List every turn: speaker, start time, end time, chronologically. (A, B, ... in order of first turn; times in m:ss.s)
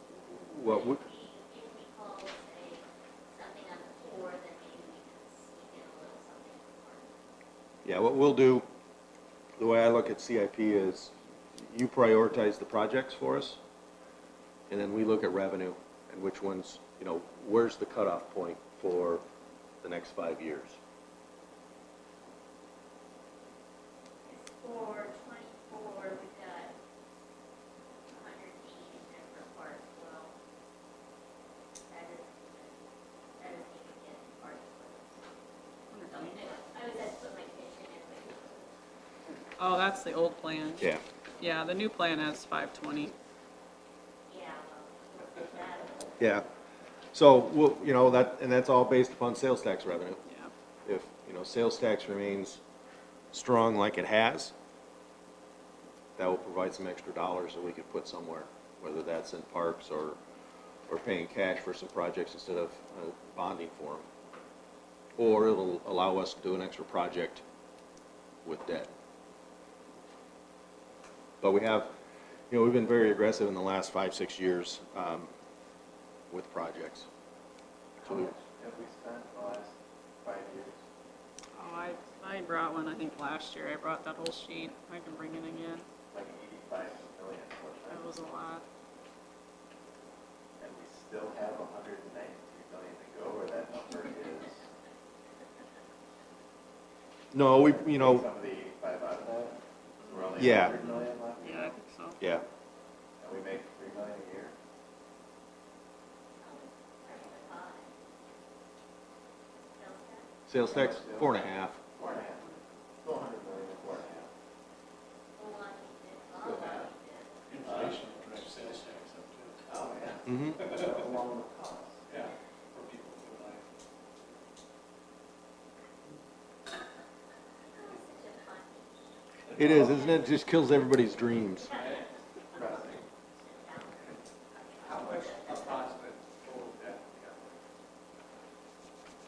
0:00.2-0:01.0 A
0:00.6-0:07.1 B
0:07.8-0:08.7 A
0:09.6-0:13.6 A
0:14.7-0:19.2 A
0:19.8-0:20.8 A
0:24.2-0:26.7 B
0:28.1-0:30.3 B
0:31.9-0:32.8 B
0:33.4-0:35.3 B
0:35.9-0:36.4 C
0:35.9-0:38.7 B
0:39.6-0:40.9 C
0:41.4-0:43.1 C
0:44.3-0:46.2 B
0:46.2-0:46.4 A
0:47.1-0:50.2 A
0:50.8-0:52.6 A
0:53.3-0:54.5 A
0:56.2-1:00.2 A
1:00.9-1:04.1 A
1:05.2-1:07.4 A
1:08.4-1:08.9 A
1:11.4-1:11.9 A
1:12.5-1:15.3 A
1:16.3-1:17.1 A
1:18.0-1:18.3 A
1:18.0-1:20.8 D
1:21.6-1:25.8 C
1:26.1-1:28.2 D
1:27.9-1:28.6 C
1:30.6-1:34.6 D
1:37.3-1:38.2 A
1:37.6-1:41.8 D
1:40.0-1:42.2 C
1:40.4-1:40.7 A
1:42.2-1:42.4 A
1:43.2-1:44.5 D
1:46.4-1:47.9 B
1:49.7-1:50.3 B
1:50.5-1:51.8 A
1:50.6-1:54.3 D
1:55.4-1:57.4 B
1:56.4-1:56.9 D
1:57.5-1:59.6 E
1:57.5-1:58.5 D
1:59.6-2:02.1 D
2:00.3-2:00.6 A
2:00.6-2:01.0 E
2:02.1-2:03.6 E
2:07.7-2:10.3 B
2:09.5-2:11.7 A
2:11.5-2:12.1 B
2:12.5-2:13.0 D
2:13.3-2:15.9 B
2:14.8-2:17.5 E